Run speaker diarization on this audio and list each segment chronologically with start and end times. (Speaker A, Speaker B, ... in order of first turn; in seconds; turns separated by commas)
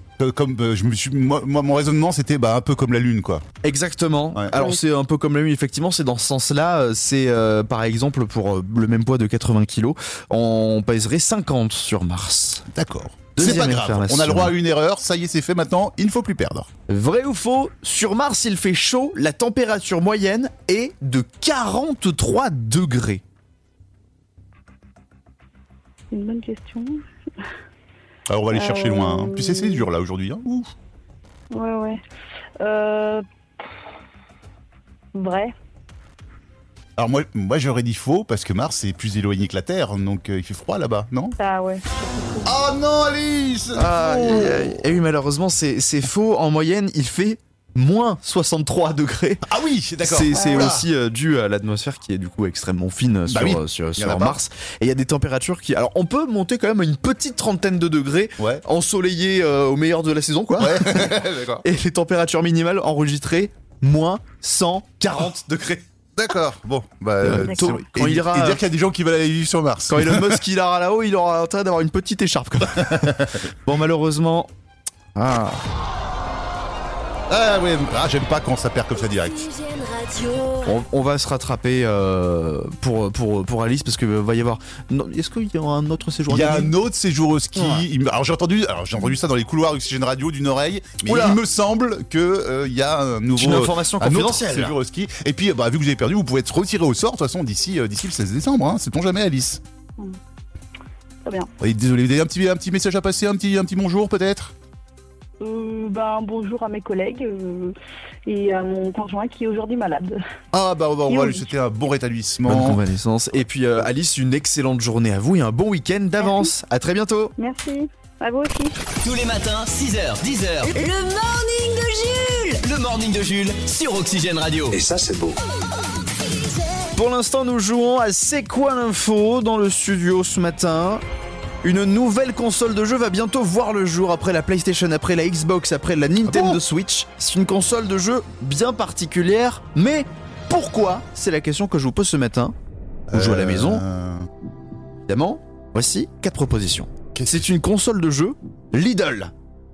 Speaker A: 0.2-3.4, Speaker B: 3.6-12.6, Speaker A: 12.7-16.7, Speaker B: 13.3-14.5, Speaker B: 16.9-23.2, Speaker C: 26.1-27.0, Speaker A: 28.3-30.7, Speaker C: 28.5-29.9, Speaker C: 31.5-32.0, Speaker C: 32.6-33.2, Speaker C: 35.1-35.5, Speaker A: 37.0-41.4, Speaker C: 41.4-42.6, Speaker A: 42.4-44.8, Speaker B: 43.7-49.4, Speaker A: 49.4-50.9, Speaker B: 50.0-65.8, Speaker C: 50.4-50.7, Speaker A: 53.3-54.4, Speaker A: 60.5-61.6, Speaker A: 66.2-70.4, Speaker B: 67.2-68.6, Speaker B: 69.9-74.5, Speaker A: 72.8-73.3, Speaker B: 75.2-75.6, Speaker A: 77.3-79.5, Speaker D: 79.1-80.7, Speaker B: 80.6-86.7, Speaker A: 86.3-99.6, Speaker B: 87.5-87.8, Speaker B: 91.0-91.4, Speaker B: 93.3-94.8, Speaker C: 101.2-101.5, Speaker A: 101.6-104.5, Speaker C: 105.4-107.7, Speaker C: 108.2-110.2, Speaker A: 110.5-112.8, Speaker C: 111.1-111.5, Speaker B: 112.5-117.3, Speaker C: 116.2-116.5, Speaker C: 117.4-118.8, Speaker E: 119.0-120.7, Speaker D: 120.7-122.6, Speaker E: 122.6-124.9, Speaker B: 126.9-131.0, Speaker B: 131.6-142.5, Speaker A: 136.2-136.6, Speaker A: 143.1-144.3, Speaker B: 143.1-143.8, Speaker B: 145.1-149.3, Speaker A: 147.1-147.5